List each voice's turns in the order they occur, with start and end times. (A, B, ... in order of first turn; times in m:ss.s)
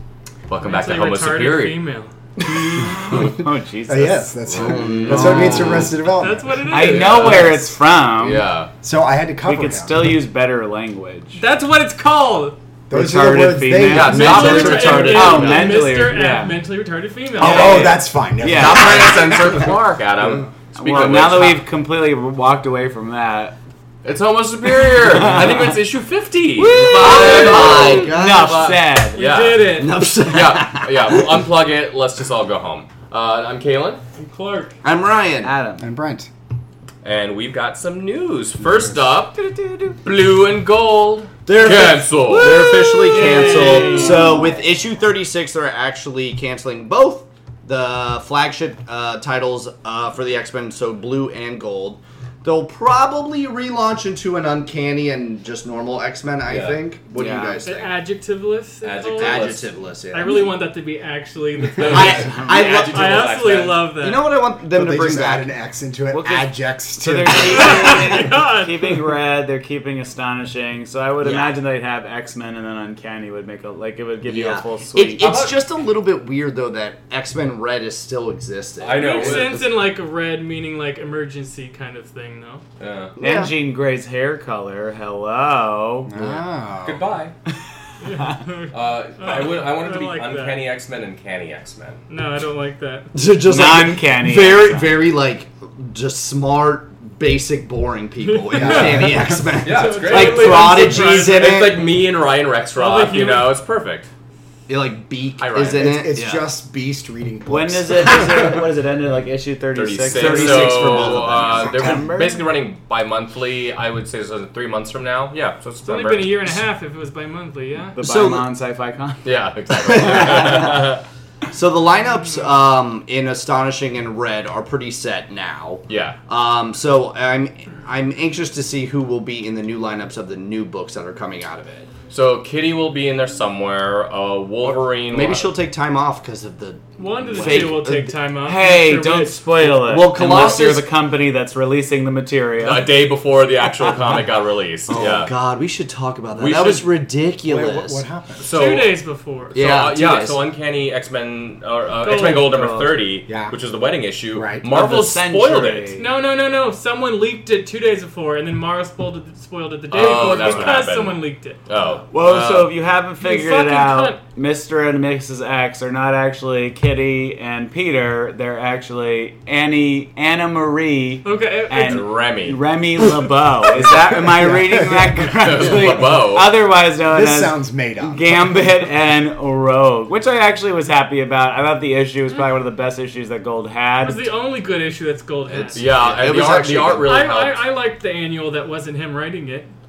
0:00.5-0:01.8 A
0:00.6-0:02.1 B
0:02.4-0:05.9 C
0:03.9-0:06.6 D
0:04.6-0:06.0 E
0:06.1-0:07.5 B
0:06.7-0:08.5 C
0:06.7-0:08.7 A
0:08.8-0:10.2 D
0:09.4-0:11.4 C
0:11.4-0:12.5 B
0:12.9-0:14.5 D
0:12.9-0:16.6 C
0:13.9-0:15.9 A
0:14.0-0:18.0 B
0:14.2-0:15.8 E
0:17.4-0:19.5 D
0:17.4-0:21.6 A
0:18.4-0:19.1 C
0:20.7-0:23.5 C
0:24.0-0:34.0 A
0:25.1-0:25.7 C
0:26.6-0:29.2 C
0:26.7-0:28.8 E
0:29.1-0:30.0 B
0:29.6-0:31.4 E
0:34.1-0:34.7 B
0:34.8-0:35.5 E
0:35.4-0:35.9 C
0:35.8-0:36.3 D
0:37.0-0:39.4 A
0:39.5-0:40.0 C
0:40.0-0:42.7 A
0:41.5-0:58.0 E
0:41.6-0:44.5 C
0:43.1-0:44.4 B
0:56.4-0:56.8 A
0:57.1-0:57.6 C
0:57.6-0:59.6 B
0:58.8-0:59.7 A
0:59.2-1:00.5 E
1:00.1-1:04.4 B
1:01.8-1:03.9 A
1:01.8-1:03.3 E
1:04.0-1:05.5 E
1:04.7-1:08.0 D
1:06.1-1:15.3 C
1:07.4-1:09.0 B
1:11.2-1:11.5 E
1:14.2-1:19.7 E
1:15.2-1:15.6 A
1:18.8-1:19.6 A
1:19.0-1:22.6 B
1:22.8-1:23.1 A
1:23.2-1:23.5 E
1:23.2-1:26.1 C
1:26.1-1:27.0 D
1:26.8-1:27.3 A
1:28.0-1:30.6 B
1:28.1-1:28.4 C
1:28.7-1:32.0 A
1:32.1-1:33.1 B
1:33.1-1:41.9 E
1:33.4-1:35.0 C
1:38.2-1:41.8 B
1:38.5-1:39.4 D
1:39.6-1:44.1 A
1:42.7-1:43.5 B
1:44.7-1:46.5 E
1:45.4-1:45.9 A
1:45.7-1:48.6 D
1:47.5-1:52.4 C
1:49.7-1:56.6 A
1:50.1-1:52.0 E
1:55.8-1:58.0 B
1:58.0-1:59.3 C
1:58.0-1:58.4 E
1:59.2-2:01.0 A
1:59.8-2:00.9 E
2:01.5-2:11.9 E
2:05.9-2:06.2 A
2:12.1-2:15.5 A
2:14.6-2:18.1 E
2:17.0-2:19.5 B
2:17.4-2:17.7 C
2:18.4-2:23.0 C
2:19.6-2:20.8 E
2:22.6-2:25.3 A
2:23.8-2:24.2 C
2:24.9-2:28.0 E
2:26.3-2:27.0 A
2:27.4-2:28.5 D
2:28.4-2:29.0 A
2:28.4-2:29.6 B
2:29.5-2:35.9 A
2:29.5-2:30.4 E
2:32.0-2:32.6 B
2:32.3-2:32.9 C
2:33.3-2:33.6 D
2:34.3-2:34.7 D
2:34.6-2:36.1 C
2:36.0-2:41.6 B
2:39.9-2:42.7 A
2:40.4-2:40.7 C
2:42.1-3:04.3 C
2:43.2-2:44.2 B
2:51.2-2:52.2 B
2:51.8-2:52.6 A
2:53.8-2:55.3 D
2:55.3-2:56.5 A
2:57.0-2:58.8 D
3:04.0-3:06.2 B
3:05.5-3:07.1 E
3:05.7-3:07.6 A
3:07.0-3:09.7 B